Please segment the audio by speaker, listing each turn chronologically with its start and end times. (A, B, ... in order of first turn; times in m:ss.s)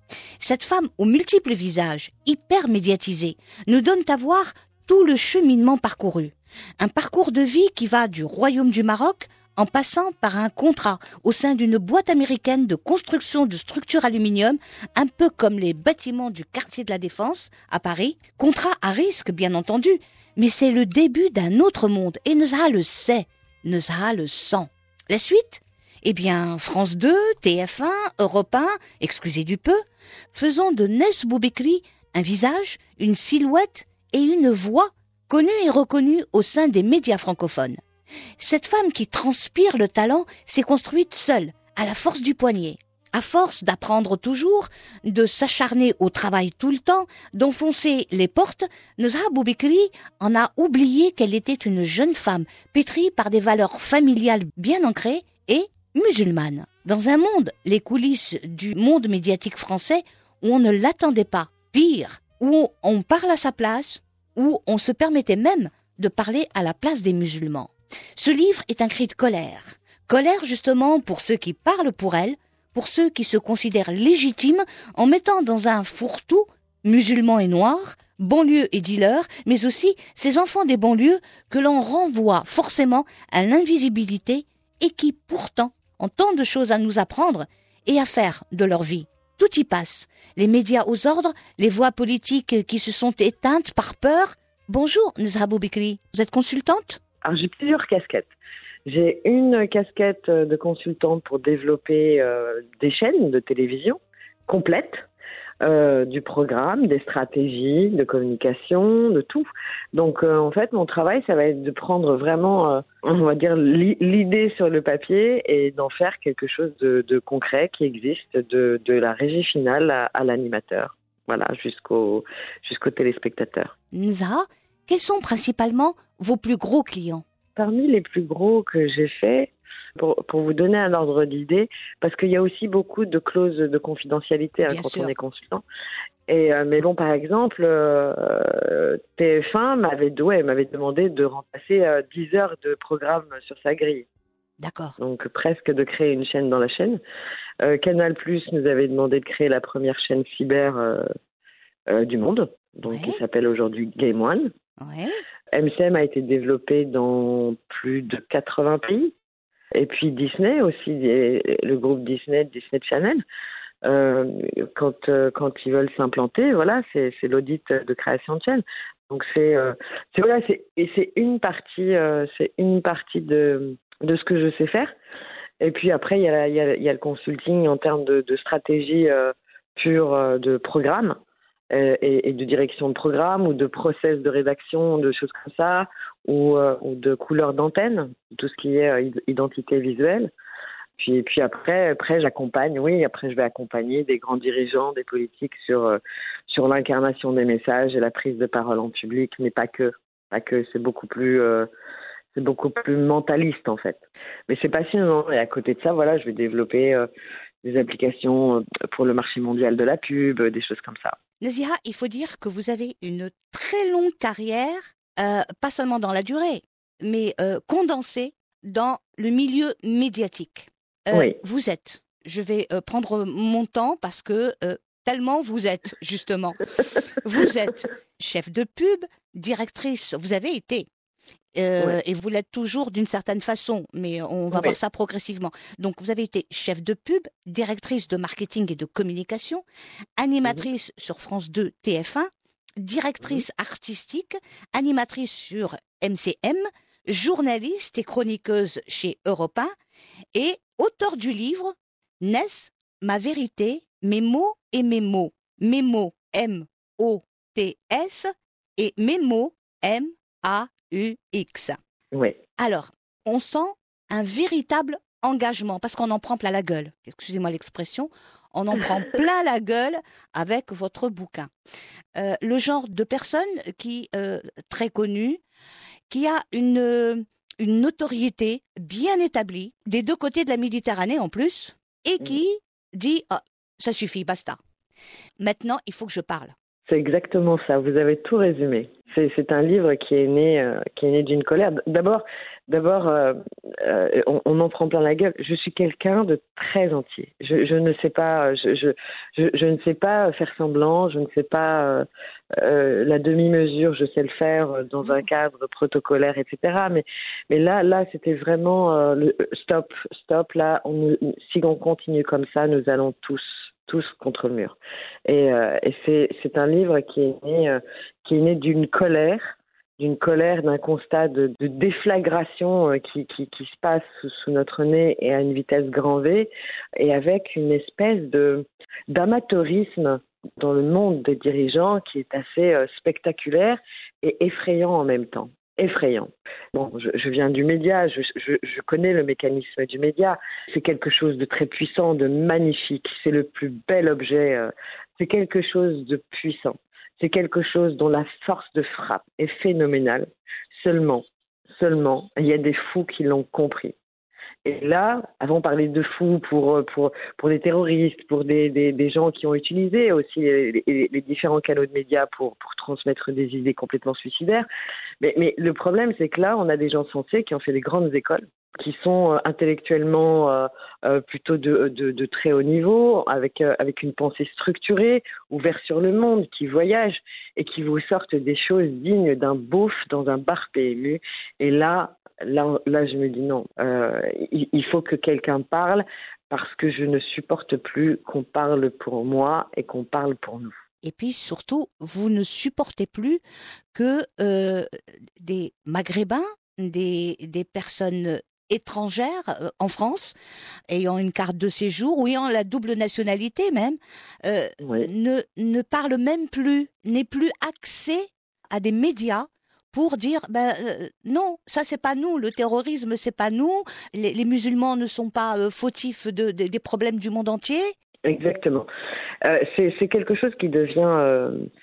0:00.4-0:29.8 A
0:30.3-0:37.8 A
0:38.4-1:37.0 A
1:37.2-1:38.3 B
1:38.8-1:45.0 B
1:45.6-2:03.7 B
2:03.9-2:07.2 A
2:07.6-2:15.6 B
2:14.6-2:15.1 A
2:16.3-2:24.1 B
2:24.6-2:25.0 A
2:25.0-2:27.0 B
2:27.6-2:31.1 B
2:31.9-2:34.5 B
2:32.9-2:33.2 A
2:34.8-2:35.2 A
2:35.5-2:39.1 B
2:39.7-2:43.2 B
2:43.8-2:54.9 B
2:55.6-3:01.2 B
3:01.7-3:10.3 B
3:11.0-3:21.7 B
3:22.3-3:27.1 B
3:27.6-3:31.2 B
3:31.4-3:46.6 A
3:41.1-3:41.4 B
3:47.2-3:50.9 A
3:51.6-3:59.6 A
4:00.2-4:09.7 A
4:10.3-4:21.8 A
4:22.6-4:31.5 A
4:32.2-4:35.4 A
4:36.1-4:44.6 A
4:45.4-4:46.5 A
4:46.9-5:02.0 B
5:02.6-5:54.0 B
5:54.6-6:04.7 B
6:05.2-6:30.8 B
6:31.0-6:33.4 A
6:33.9-6:34.9 A
6:35.4-6:40.4 A
6:40.9-6:57.9 A
6:44.8-6:45.0 B
6:58.3-6:58.9 B
6:59.4-7:01.7 B